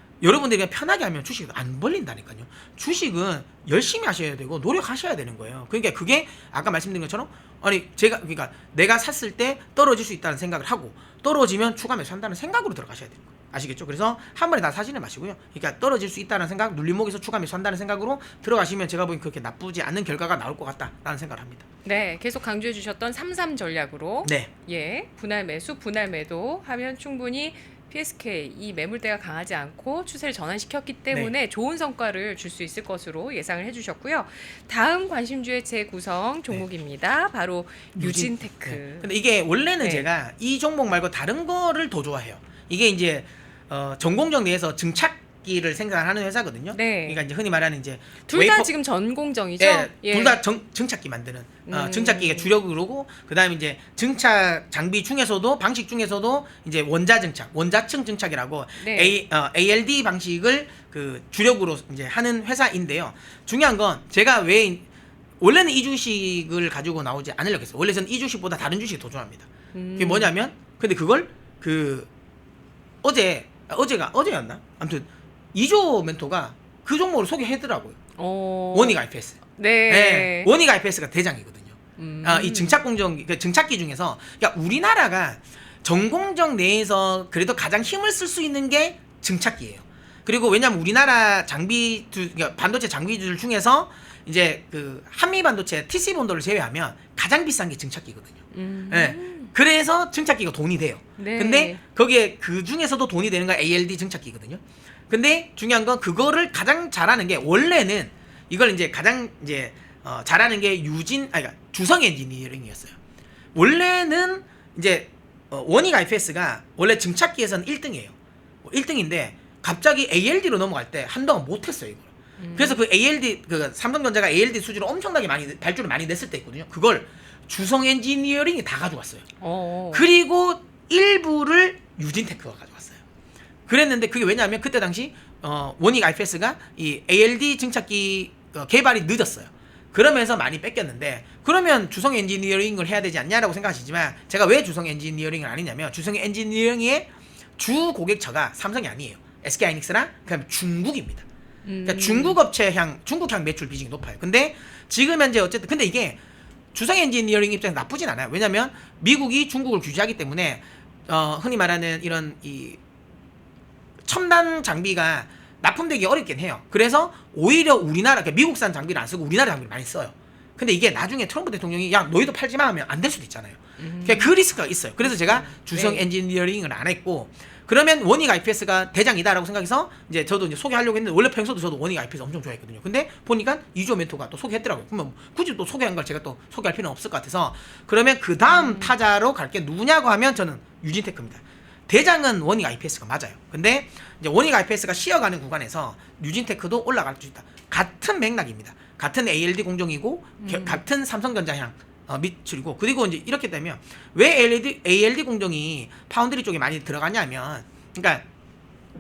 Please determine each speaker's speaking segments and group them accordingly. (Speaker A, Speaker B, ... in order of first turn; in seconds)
Speaker A: 0.2-21.6, 24.2-24.5, 38.0-48.7, 49.6-64.8, 65.4-72.1, 73.0-78.0, 78.7-113.0, 113.5-118.1, 118.6-129.2, 129.9-133.0, 133.7-151.2, 151.8-156.2, 156.7-162.8, 164.1-208.2
Speaker B: 21.8-39.1, 39.8-40.0, 46.7-47.2, 48.3-50.4, 51.7-52.5, 58.8-59.2, 69.7-70.3, 78.2-79.0, 79.5-80.5, 82.0-82.8, 98.5-99.5, 101.2-101.8, 122.4-122.8, 129.4-130.1, 151.7-152.4, 173.8-174.3, 175.0-176.1, 188.5-188.9, 200.4-200.8